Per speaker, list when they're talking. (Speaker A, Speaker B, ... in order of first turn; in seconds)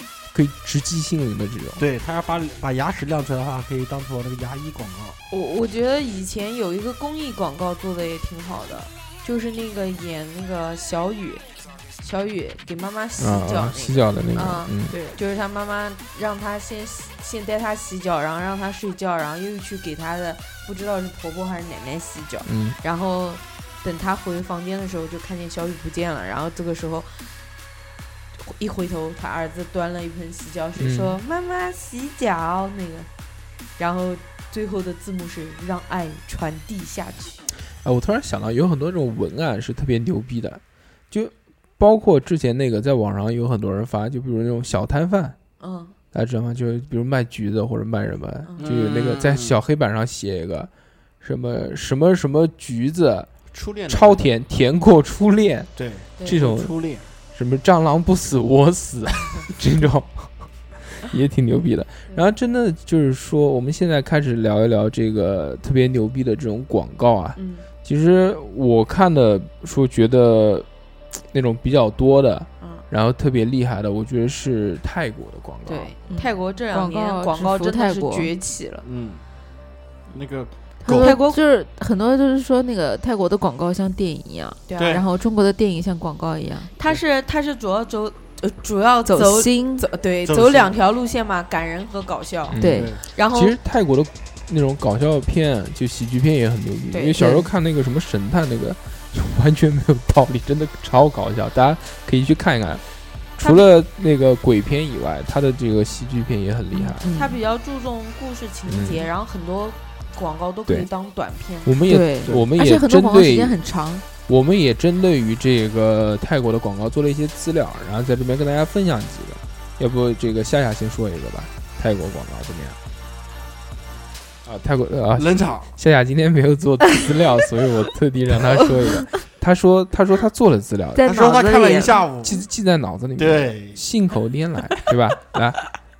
Speaker A: 0.3-1.8, 13.2-14.9, 22.4-22.8, 30.8-31.2, 37.8-45.4, 46.1-50.7, 51.2-53.3, 53.9-55.7, 56.2-56.7, 57.3-60.3, 60.9-70.7, 71.3-75.9, 92.5-102.8, 103.4-107.1, 108.7-109.0, 111.6-113.5, 114.3-122.8, 124.5-131.1, 132.2-135.6
Speaker B: 1.8-5.2, 48.6-49.5, 53.5-54.3, 55.8-57.0, 78.8-79.2, 80.1-81.2, 84.8-85.0, 90.2-90.8, 92.6-93.0, 125.1-125.7, 131.0-132.4, 133.2-133.8
Speaker C: 5.3-11.4, 12.0-27.2, 28.4-33.1, 33.8-37.4, 45.6-45.9, 67.3-67.7, 75.7-78.8, 80.9-81.4, 84.7-85.0, 86.8-93.5, 103.4-103.7, 107.0-111.8
Speaker D: 76.1-78.3, 80.8-86.7, 89.1-89.8, 92.6-92.9, 97.1-97.5, 106.7-107.4, 111.8-114.0, 130.9-132.0